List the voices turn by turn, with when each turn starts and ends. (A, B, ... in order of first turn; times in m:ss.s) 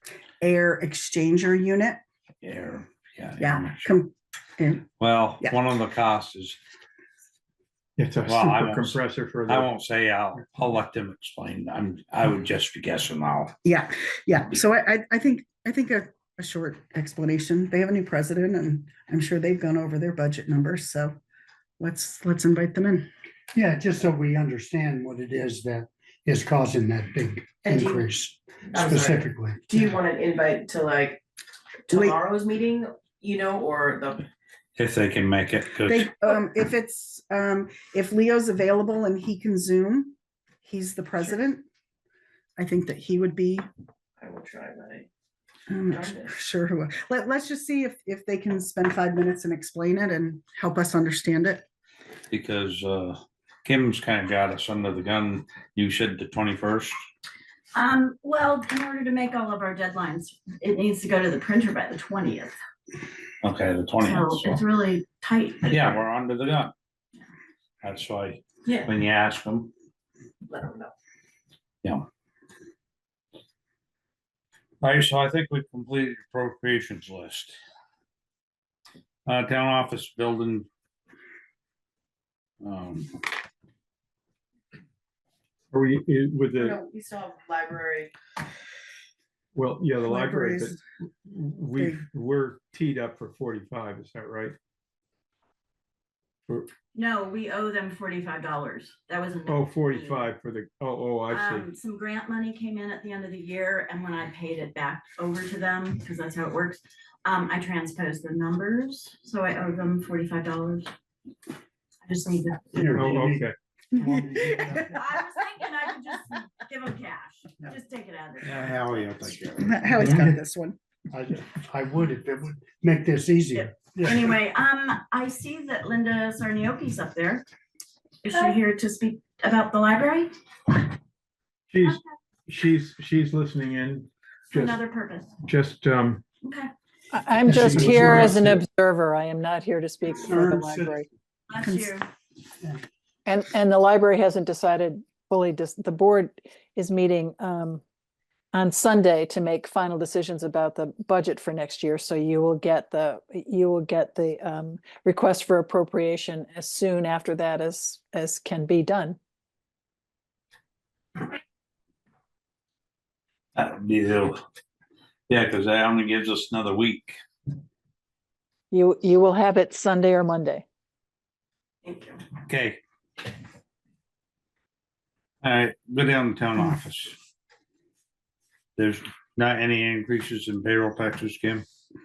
0:00.4-0:02.0 A
0:02.4-0:03.9 B
0:03.4-0:04.9 A
0:05.0-0:06.6 B
0:08.0-0:09.7 C
0:08.2-0:13.6 B
0:13.6-0:21.2 A
0:21.8-0:23.1 A
0:23.5-0:29.9 D
0:27.7-0:28.0 E
0:28.7-0:31.2 E
0:31.9-0:34.3 E
0:31.9-0:32.2 A
0:34.8-0:36.1 B
0:35.9-0:41.6 A
0:42.6-0:43.7 A
0:44.2-0:45.1 E
0:45.7-0:51.6 A
0:45.9-0:46.3 E
0:52.3-0:57.0 B
0:57.8-1:02.6 F
1:03.4-1:04.6 B
1:04.0-1:06.0 F
1:05.7-1:06.7 B
1:07.8-1:09.7 B
1:10.5-1:10.9 E
1:14.8-1:17.6 B
1:19.3-1:20.7 B
1:22.6-1:23.1 B
1:25.7-1:26.8 C
1:26.6-1:28.1 E
1:29.6-1:30.8 C
1:30.0-1:30.8 A
1:31.3-1:34.6 C
1:31.8-1:32.0 A
1:37.0-1:40.2 F
1:39.5-1:41.7 C
1:41.3-1:50.9 F
1:52.0-1:52.9 F
1:52.7-1:55.0 D
1:52.9-1:53.5 C
1:54.4-1:54.9 A
1:54.9-1:59.2 F
1:58.4-2:00.2 B
1:59.6-2:00.8 A
2:00.0-2:00.3 D
2:01.1-2:04.3 D
2:03.6-2:07.4 F
2:08.2-2:10.3 F
2:11.7-2:14.8 C
2:14.5-2:15.4 F
2:15.5-2:16.2 C
2:16.4-2:16.7 F
2:17.1-2:21.1 G
2:17.4-2:18.5 D
2:17.6-2:18.6 C
2:20.1-2:21.1 D
2:21.5-2:22.0 F
2:23.3-2:27.8 G
2:28.5-2:39.2 G
2:43.6-2:44.4 B
2:45.3-2:47.2 B
2:48.7-2:50.6 G
2:51.8-2:52.2 E
2:52.5-2:52.8 B
2:55.4-2:57.2 B
2:58.8-3:01.6 B